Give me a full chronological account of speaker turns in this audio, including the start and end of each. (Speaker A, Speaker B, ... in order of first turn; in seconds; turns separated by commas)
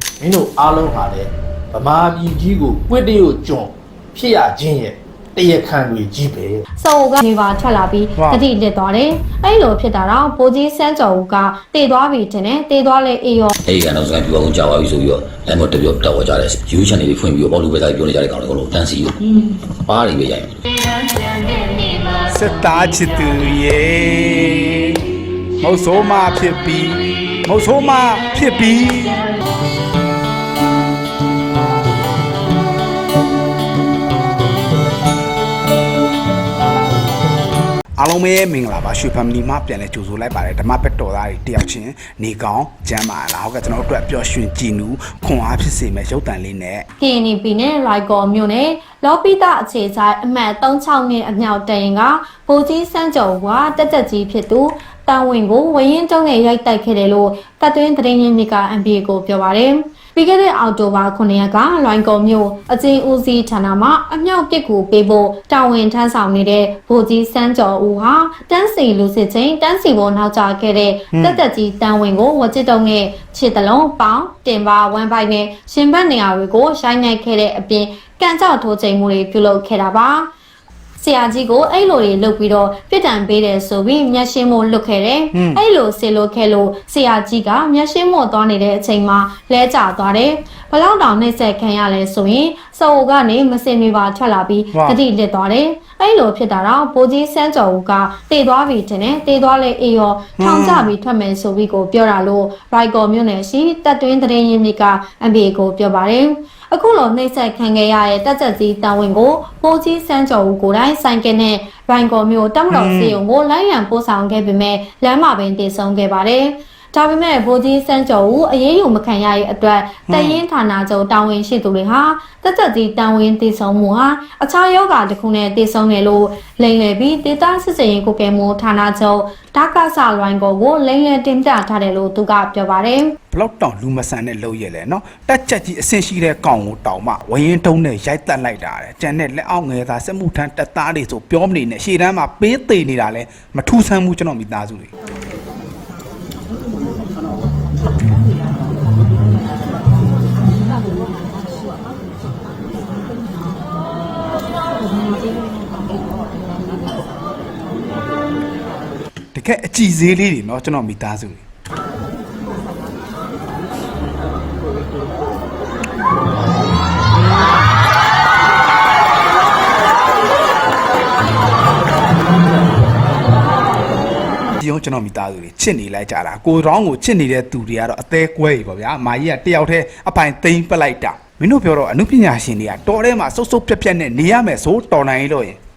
Speaker A: 0.2-6.7, Speaker B: 6.8-13.5, Speaker C: 8.2-8.4, Speaker D: 13.7-19.1, Speaker D: 19.9-20.6, Speaker C: 22.3-25.0, Speaker C: 25.6-29.3, Speaker C: 38.0-46.9, Speaker B: 47.0-80.3, Speaker C: 71.1-71.4, Speaker B: 81.0-133.1, Speaker C: 85.3-85.6, Speaker C: 94.7-95.0, Speaker C: 100.4-100.9, Speaker C: 112.7-113.2, Speaker C: 120.1-120.4, Speaker C: 133.3-144.9, Speaker C: 159.3-161.4, Speaker C: 174.6-185.6